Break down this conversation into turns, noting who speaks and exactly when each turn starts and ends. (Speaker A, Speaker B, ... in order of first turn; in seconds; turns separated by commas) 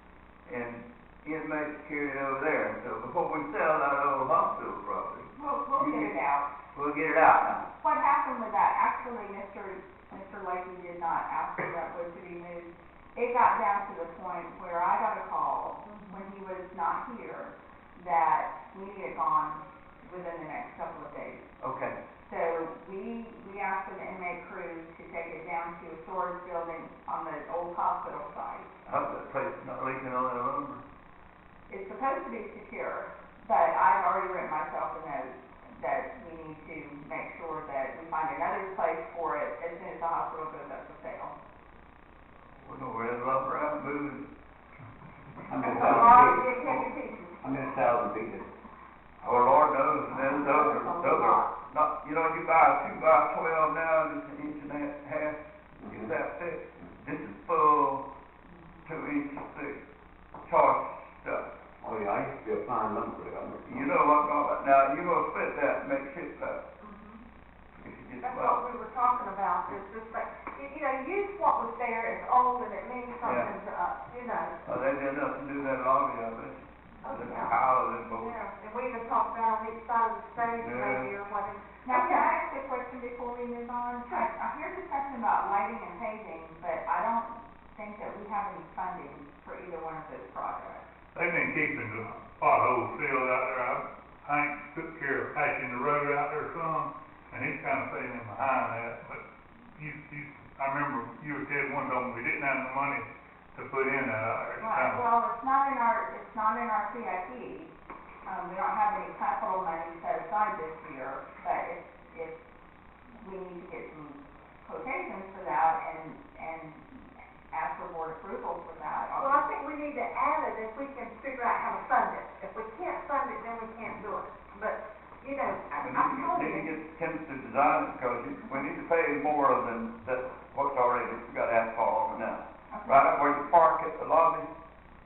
Speaker A: 0.5-6.2, Speaker B: 5.3-6.5, Speaker A: 6.7-7.7, Speaker B: 7.8-21.4, Speaker C: 15.8-16.2, Speaker A: 21.6-22.0, Speaker B: 22.3-28.7, Speaker A: 28.8-30.8, Speaker B: 31.7-41.4, Speaker A: 42.6-44.3, Speaker D: 45.5-46.9, Speaker C: 45.5-47.6, Speaker D: 47.4-48.5, Speaker A: 49.2-58.1, Speaker C: 50.1-51.5, Speaker D: 55.8-56.1, Speaker A: 58.9-59.8, Speaker A: 60.5-61.5, Speaker D: 61.8-63.8, Speaker A: 63.7-66.6, Speaker C: 66.8-67.2, Speaker A: 67.8-68.6, Speaker C: 68.2-74.6, Speaker A: 73.2-73.5, Speaker A: 74.6-78.4, Speaker C: 77.0-77.6, Speaker C: 78.2-82.3, Speaker A: 80.6-81.1, Speaker B: 81.8-90.9, Speaker E: 91.1-105.0, Speaker B: 104.6-107.7, Speaker B: 108.2-112.4, Speaker B: 113.2-119.6, Speaker C: 119.2-126.7, Speaker A: 125.8-134.5, Speaker B: 132.7-133.1